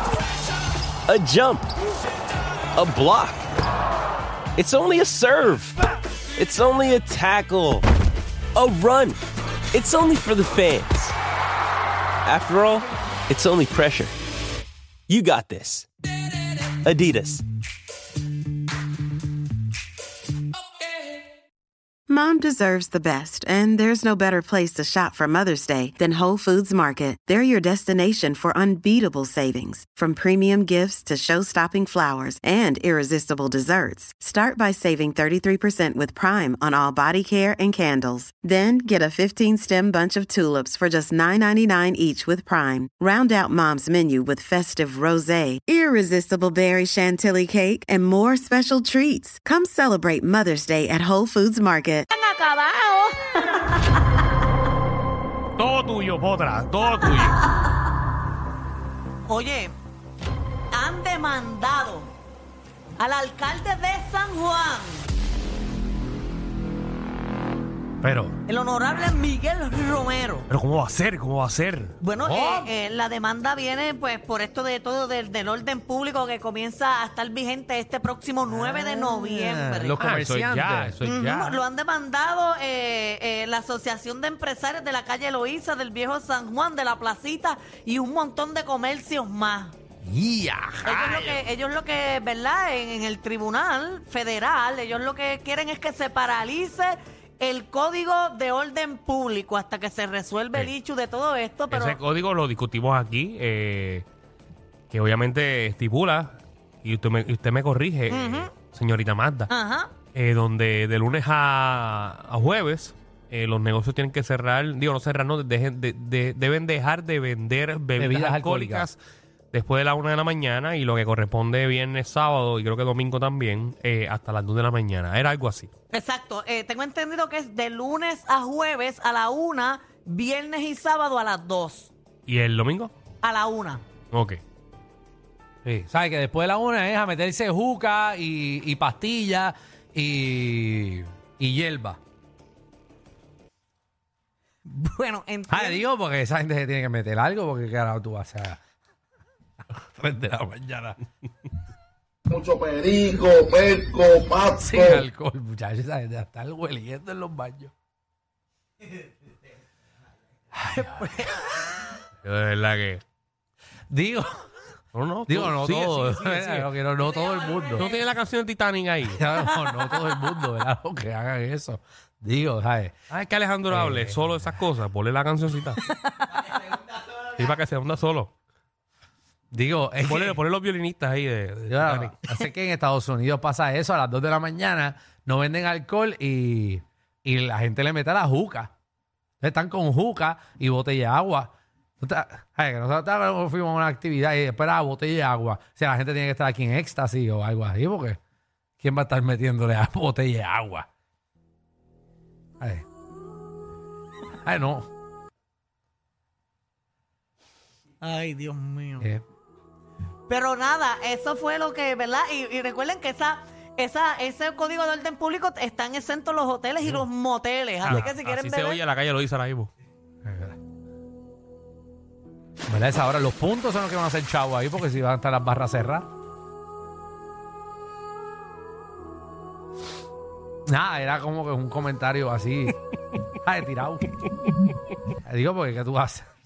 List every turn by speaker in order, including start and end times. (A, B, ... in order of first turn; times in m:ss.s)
0:01.1-0:01.7 A
0:02.8-0:03.4 A
0:04.6-0:05.8 A
0:06.4-0:07.8 A
0:08.5-0:09.2 A
0:09.7-0:11.1 A
0:12.2-0:14.1 A
0:15.1-0:15.9 A
0:16.6-0:17.4 A
0:22.1-0:52.0 B
0:52.1-0:54.0 C
0:55.6-0:57.4 D
0:59.3-0:59.7 C
1:00.7-1:02.1 C
1:03.0-1:05.1 C
1:08.0-1:08.4 E
1:08.4-1:10.5 C
1:10.5-1:12.0 D
1:12.0-1:20.0 C
1:12.2-1:12.7 E
1:18.4-1:21.0 E
1:20.0-1:21.6 D
1:21.0-1:29.7 C
1:30.0-1:31.4 E
1:30.8-1:42.0 C
1:41.7-1:44.0 D
1:44.9-1:49.5 D
1:48.1-1:48.5 C
1:49.5-1:49.9 C
1:50.1-1:59.0 D
1:58.0-1:58.9 E
1:59.5-2:05.7 D
2:05.9-2:11.9 C
2:12.3-2:12.9 D
2:13.2-2:13.8 C
2:14.1-2:14.4 D
2:15.6-2:22.0 E
2:24.6-2:25.8 C
2:25.5-2:28.6 E
2:29.8-2:31.0 E
2:32.3-2:35.0 F
2:34.5-2:37.7 E
2:40.5-2:41.6 E
2:42.2-2:43.0 D
2:43.9-2:44.4 E
2:44.9-2:46.7 D
2:45.3-2:47.9 E
2:47.7-2:49.2 D
2:49.1-2:52.9 E
2:49.5-2:50.0 C
2:53.1-2:55.8 D
2:53.7-2:54.3 E
2:57.2-2:58.3 D
2:59.5-3:00.4 E
3:00.0-3:02.5 D
3:01.7-3:08.7 E
3:09.4-3:18.2 E
3:18.8-3:20.9 E
3:22.6-3:22.8 E
3:24.4-3:24.9 E
3:28.0-3:29.1 C
3:30.3-3:38.8 C
3:37.8-3:39.7 D
3:37.9-3:38.1 E
3:40.2-3:40.6 E
3:42.7-3:46.1 E
3:50.7-3:52.8 E
3:53.4-3:54.1 E
3:55.2-3:56.3 E